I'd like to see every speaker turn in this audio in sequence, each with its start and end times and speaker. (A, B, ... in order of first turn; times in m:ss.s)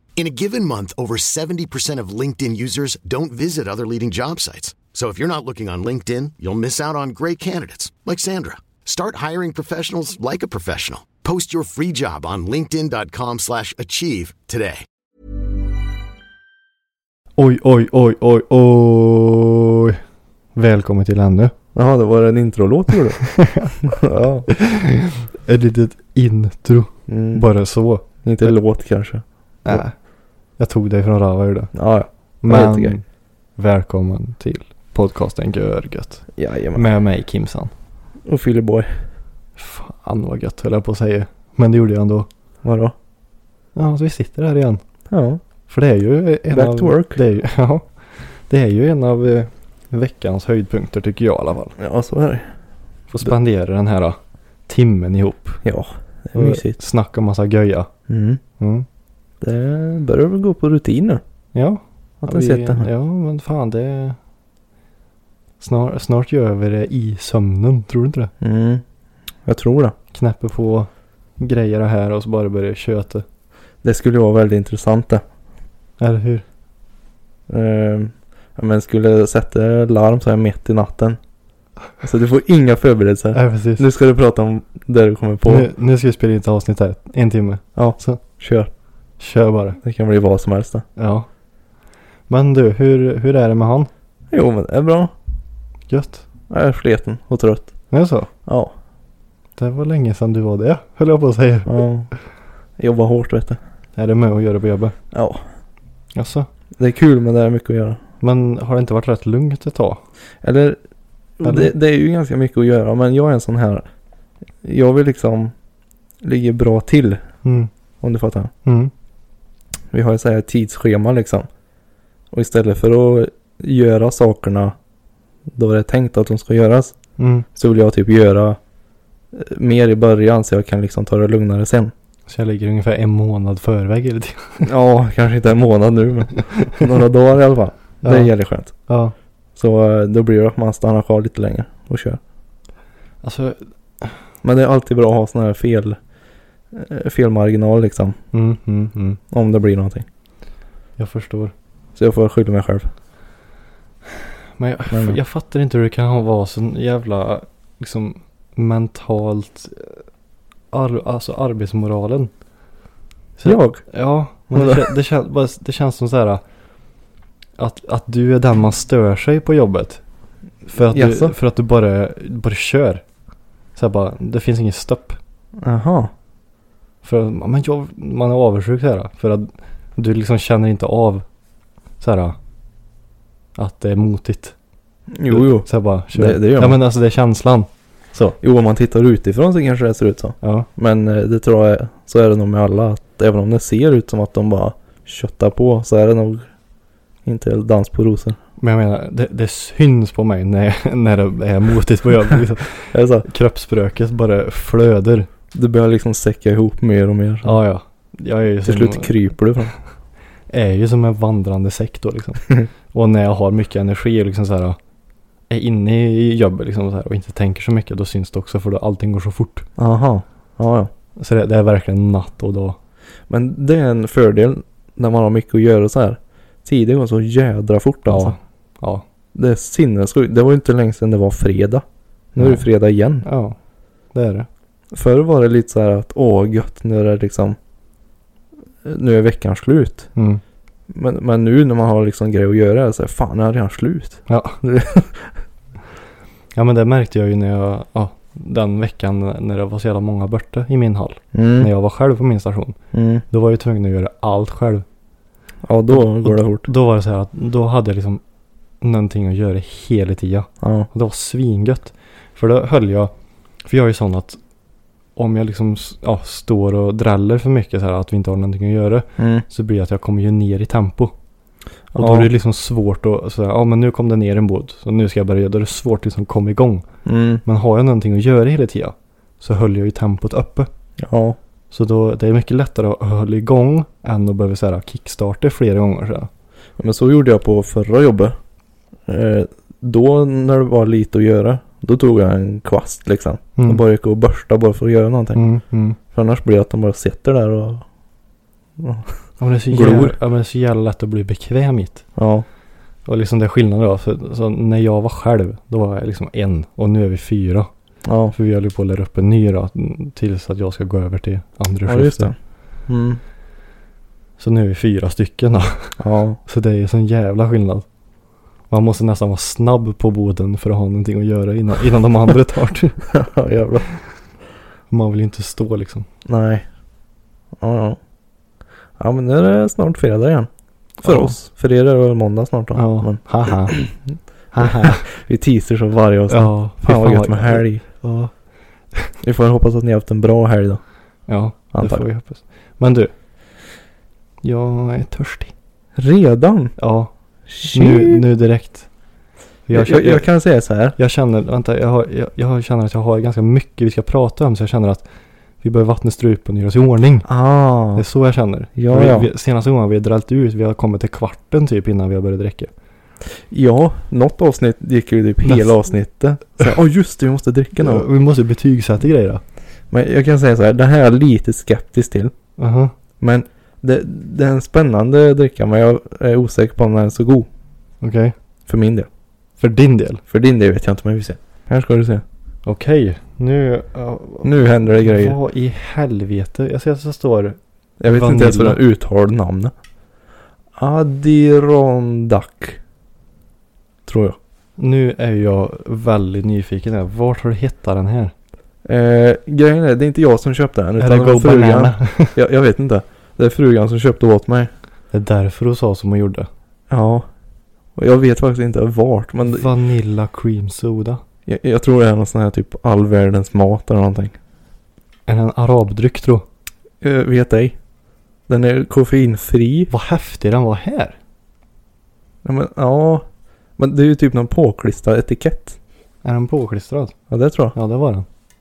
0:00.2-0:14.8 A
0:17.4-0:20.0 B
0:20.6-0:21.5 B
0:21.7-0:24.5 C
0:23.3-0:23.7 B
0:24.5-0:28.6 B
0:27.1-0:27.4 C
0:28.2-0:29.8 C
0:29.6-0:30.0 B
0:30.6-0:31.7 B
0:31.7-0:33.0 C
0:32.4-0:33.0 B
0:33.6-0:37.7 B
0:36.4-0:36.9 C
0:38.2-0:39.0 C
0:39.6-0:42.3 B
0:42.6-0:43.0 C
0:43.8-0:44.8 B
0:45.1-0:45.4 C
0:45.7-0:51.8 B
0:46.5-0:47.2 C
0:51.8-0:52.5 C
0:53.1-0:55.6 B
0:55.6-0:56.8 C
0:56.3-0:57.9 B
0:58.1-0:58.4 C
0:58.6-0:58.9 B
0:59.4-1:01.2 C
1:01.5-1:04.2 B
1:02.2-1:02.9 C
1:05.6-1:08.3 B
1:08.4-1:08.8 C
1:09.5-1:10.0 C
1:10.1-1:13.2 B
1:13.8-1:15.2 C
1:16.0-1:16.4 B
1:17.5-1:21.2 C
1:22.0-1:25.7 C
1:23.3-1:23.8 B
1:25.5-1:28.2 B
1:27.8-1:28.7 C
1:29.2-1:29.8 B
1:29.8-1:30.8 C
1:31.0-1:31.3 B
1:32.3-1:33.9 B
1:34.3-1:35.1 C
1:35.9-1:36.2 B
1:36.5-1:37.7 C
1:37.9-1:38.3 B
1:38.5-1:38.7 C
1:39.6-1:41.8 B
1:41.7-1:42.1 C
1:42.8-1:43.6 C
1:44.0-1:45.0 B
1:45.1-1:45.4 C
1:46.2-1:46.5 B
1:46.8-1:48.0 C
1:48.2-1:50.0 B
1:50.4-1:50.8 C
1:51.4-1:53.9 C
1:51.4-1:51.7 B
1:54.6-1:55.5 C
1:56.2-1:57.2 C
1:57.4-1:57.7 B
1:58.0-1:58.5 C
1:58.6-1:58.9 B
1:59.9-2:01.5 C
2:02.3-2:04.8 C
2:05.5-2:07.0 C
2:07.2-2:07.5 B
2:07.6-2:08.6 C
2:09.3-2:11.9 C
2:12.3-2:14.7 B
2:14.6-2:18.7 C
2:18.0-2:18.3 B
2:18.9-2:19.1 B
2:19.6-2:22.2 C
2:23.2-2:24.2 B
2:24.4-2:26.0 C
2:26.7-2:28.2 C
2:28.3-2:29.2 B
2:29.3-2:30.1 C
2:31.0-2:31.5 B
2:32.0-2:32.9 C
2:34.6-2:40.0 B
2:34.9-2:35.2 C
2:40.7-2:42.3 B
2:43.4-2:46.4 B
2:43.4-2:43.8 C
2:44.5-2:45.0 C
2:47.6-2:50.0 B
2:50.7-2:53.0 B
2:50.9-2:51.3 C
2:53.8-2:55.2 B
2:55.6-2:56.1 C
2:57.0-3:01.3 B
3:02.0-3:02.4 B
3:03.6-3:04.6 B
3:05.1-3:06.8 C
3:05.3-3:08.4 B
3:08.4-3:16.5 C
3:10.4-3:10.7 B
3:17.2-3:18.4 C
3:18.6-3:25.3 B
3:22.9-3:23.3 C
3:25.5-3:27.6 C
3:27.4-3:29.3 B
3:28.7-3:29.7 C
3:30.5-3:34.8 B
3:35.5-3:39.7 B
3:39.8-3:40.9 C
3:41.2-3:42.8 B
3:43.3-3:48.4 C
3:48.1-3:49.0 B
3:49.3-3:53.3 C
3:52.4-3:52.7 B
3:53.2-3:53.6 B
3:54.1-3:54.5 B
3:54.9-3:57.6 C
3:58.8-4:00.1 C
4:00.2-4:00.4 B
4:00.9-4:05.3 C
4:04.3-4:04.6 B
4:06.6-4:12.8 B
4:11.3-4:11.7 C
4:12.9-4:13.2 C
4:13.3-4:14.8 B
4:15.6-4:16.7 C
4:15.9-4:18.2 B
4:18.8-4:23.1 B
4:20.6-4:20.9 C
4:23.6-4:24.4 B
4:25.2-4:31.1 B
4:29.2-4:29.4 C
4:31.9-4:32.3 C
4:32.0-4:36.9 B
4:37.0-4:37.4 C
4:37.4-4:40.7 B
4:41.0-4:41.4 C
4:41.7-4:46.3 B
4:46.8-4:48.4 C
4:49.1-4:55.4 C
4:55.4-4:56.0 B
4:56.1-4:57.8 C
4:58.8-4:59.2 C
4:59.4-5:02.0 B
4:59.7-5:00.2 C
5:02.2-5:02.5 C
5:03.1-5:07.7 B
5:08.0-5:08.3 C
5:08.3-5:12.3 B
5:11.9-5:12.4 C
5:12.9-5:13.2 C
5:14.4-5:17.8 B
5:16.0-5:16.4 C
5:18.7-5:23.1 B
5:23.1-5:23.9 C
5:24.9-5:26.1 B
5:26.2-5:26.7 C
5:27.6-5:28.0 C
5:29.0-5:34.0 C
5:31.0-5:31.4 B
5:32.8-5:33.9 B
5:34.5-5:35.0 B
5:34.6-5:37.8 C
5:36.3-5:38.3 B
5:39.2-5:40.8 C
5:41.3-5:43.1 B
5:41.7-5:42.1 C
5:44.4-5:45.5 B
5:46.0-5:46.8 C
5:46.8-5:47.1 B
5:47.5-5:48.2 C
5:47.6-5:48.9 B
5:49.7-5:50.3 B
5:49.7-5:51.0 C
5:51.0-5:55.0 B
5:55.6-5:57.3 B
5:57.3-5:58.0 C
5:58.0-6:02.7 B
5:58.8-5:59.3 C
6:03.5-6:08.1 C
6:05.4-6:05.8 B
6:07.8-6:09.4 B
6:09.9-6:12.3 C
6:12.6-6:12.9 B
6:13.2-6:17.5 C
6:18.0-6:18.4 B
6:18.7-6:19.1 C
6:19.6-6:20.2 B
6:20.3-6:22.2 C
6:22.6-6:28.8 B
6:24.4-6:25.4 C
6:28.0-6:29.7 C
6:30.8-6:32.8 C
6:34.1-6:34.4 C
6:34.8-6:38.3 B
6:38.8-6:44.7 C
6:41.0-6:42.4 B
6:45.1-6:46.5 B
6:46.9-6:47.3 C
6:48.0-6:49.7 C
6:49.5-6:51.2 B
6:51.5-6:54.4 C
6:55.3-6:56.4 B
6:57.0-6:57.8 C
6:58.5-6:59.9 C
6:59.9-7:01.2 B
7:02.4-7:03.3 C
7:03.8-7:05.8 C
7:06.2-7:07.2 B
7:07.3-7:07.8 C
7:07.8-7:08.3 B